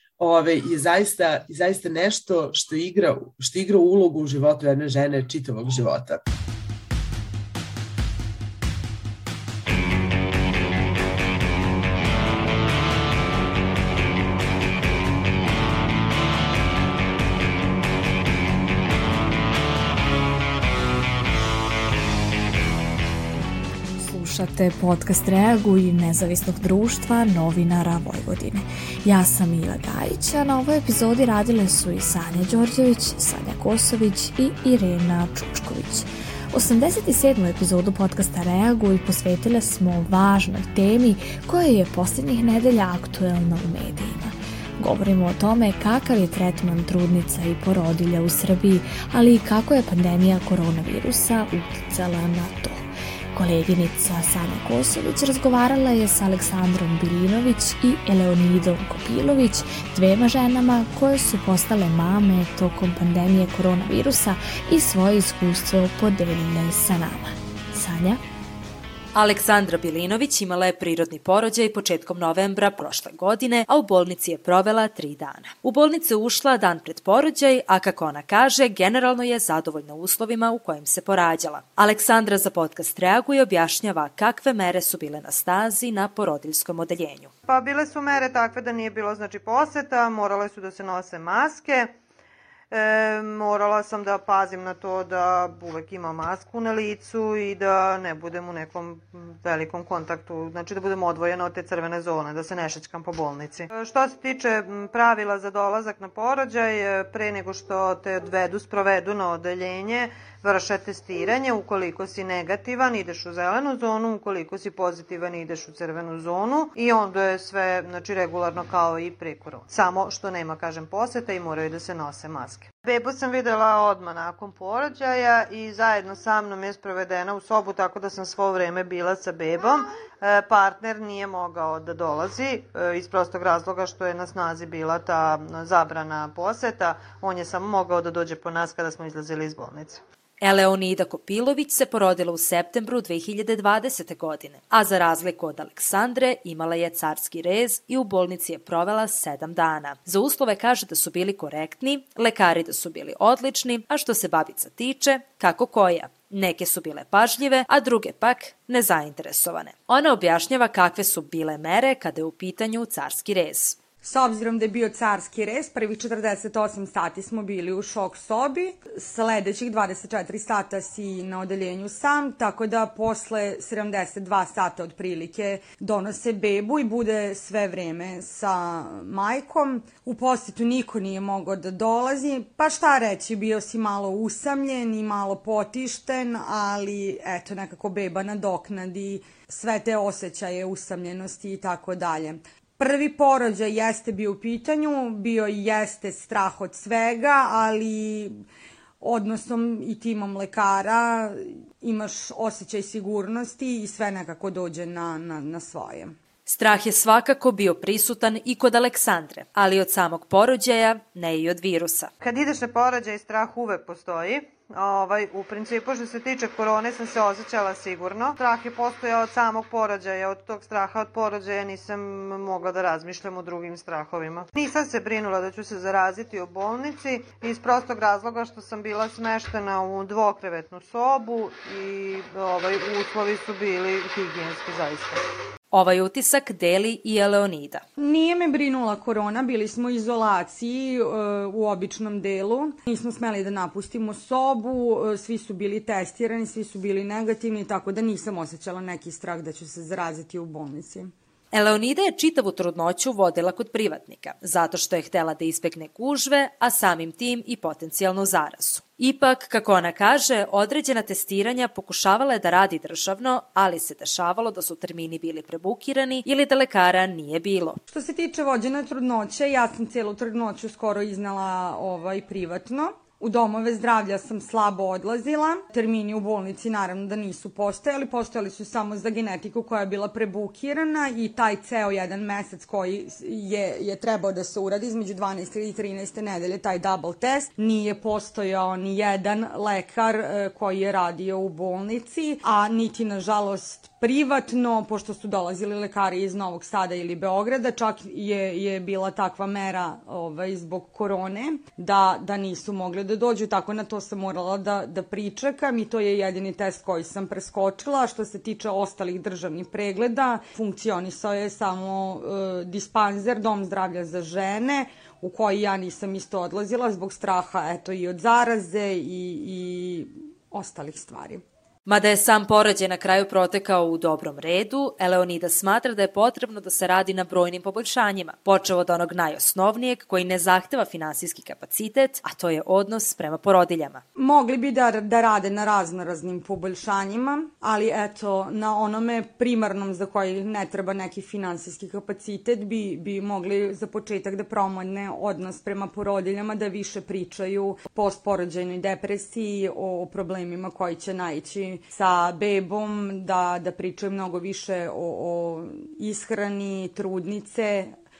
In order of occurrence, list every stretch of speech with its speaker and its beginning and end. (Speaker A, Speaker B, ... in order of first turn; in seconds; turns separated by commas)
Speaker A: 0.2-6.2, Speaker B: 24.0-68.2, Speaker C: 69.1-87.3, Speaker D: 87.5-91.9, Speaker D: 92.7-140.0, Speaker C: 140.4-163.8, Speaker E: 164.0-198.4, Speaker E: 199.0-206.1, Speaker C: 206.4-212.1, Speaker D: 212.2-235.2, Speaker C: 235.7-237.8, Speaker E: 238.0-251.1, Speaker C: 251.5-267.8, Speaker E: 267.9-321.4, Speaker C: 321.9-334.0, Speaker E: 334.1-357.9